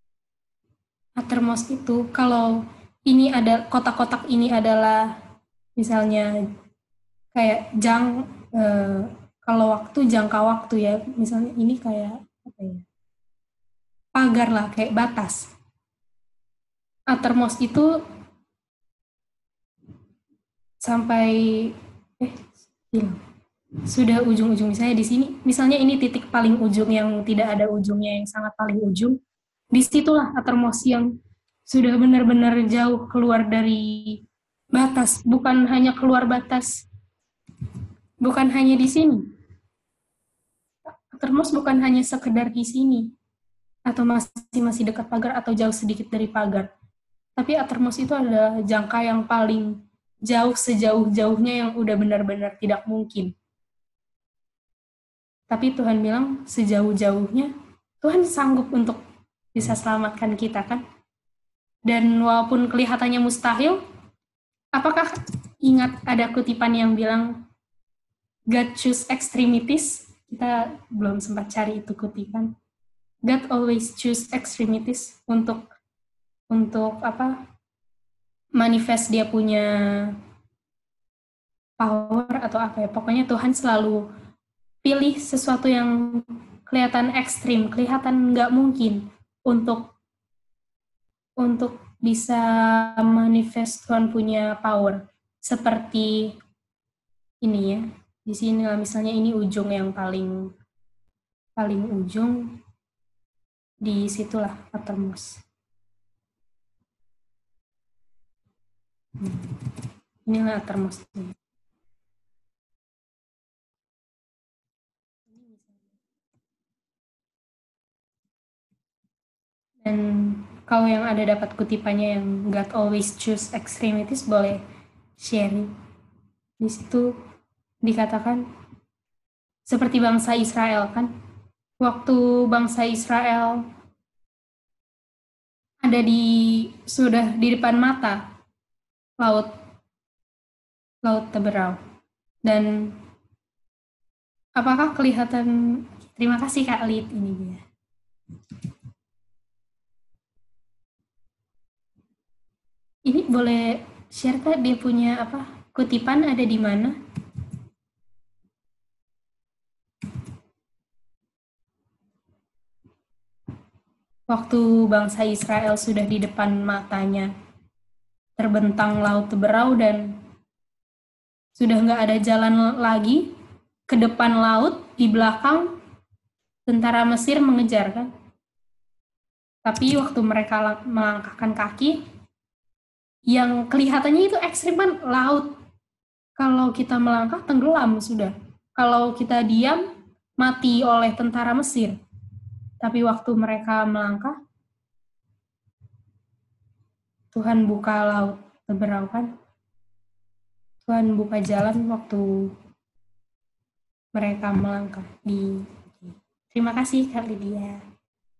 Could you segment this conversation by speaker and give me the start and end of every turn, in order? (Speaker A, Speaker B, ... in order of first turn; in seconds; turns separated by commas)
Speaker A: 1.2-2.5, Speaker A: 3.1-5.0, Speaker A: 5.8-6.3, Speaker A: 7.3-12.8, Speaker A: 14.1-15.4, Speaker A: 17.1-17.9, Speaker A: 20.8-23.2, Speaker A: 23.9-29.1, Speaker A: 29.7-31.1, Speaker A: 31.7-34.2, Speaker A: 34.7-36.8, Speaker A: 38.2-39.2, Speaker A: 41.1-43.1, Speaker A: 43.9-46.7, Speaker A: 47.4-49.7, Speaker A: 50.3-53.3, Speaker A: 55.5-59.0, Speaker A: 59.5-60.8, Speaker A: 61.9-63.8, Speaker A: 64.8-65.1, Speaker A: 65.6-67.3, Speaker A: 68.5-72.5, Speaker A: 73.3-75.6, Speaker A: 76.5-77.3, Speaker A: 78.6-79.7, Speaker A: 81.8-84.0, Speaker A: 84.8-89.9, Speaker A: 91.4-96.3, Speaker A: 97.4-100.4, Speaker A: 101.6-102.5, Speaker A: 103.8-105.4, Speaker A: 109.2-109.5, Speaker A: 110.2-111.3, Speaker A: 115.3-116.0, Speaker A: 119.8-124.6, Speaker A: 125.2-125.7, Speaker A: 126.6-127.1, Speaker A: 127.8-128.4, Speaker A: 129.7-131.1, Speaker A: 131.8-133.6, Speaker A: 135.8-138.2, Speaker A: 139.2-139.5, Speaker A: 141.0-141.8, Speaker A: 142.4-142.9, Speaker A: 144.6-145.5, Speaker A: 146.2-147.6, Speaker A: 153.1-156.9, Speaker A: 164.3-167.3, Speaker A: 168.4-170.0, Speaker A: 171.6-173.2, Speaker A: 173.9-175.7, Speaker A: 176.7-178.1, Speaker A: 179.7-182.0, Speaker A: 183.3-185.5, Speaker A: 186.4-189.8, Speaker A: 190.4-191.9, Speaker A: 192.8-194.3, Speaker A: 197.3-199.3, Speaker A: 200.8-202.2, Speaker A: 204.1-207.8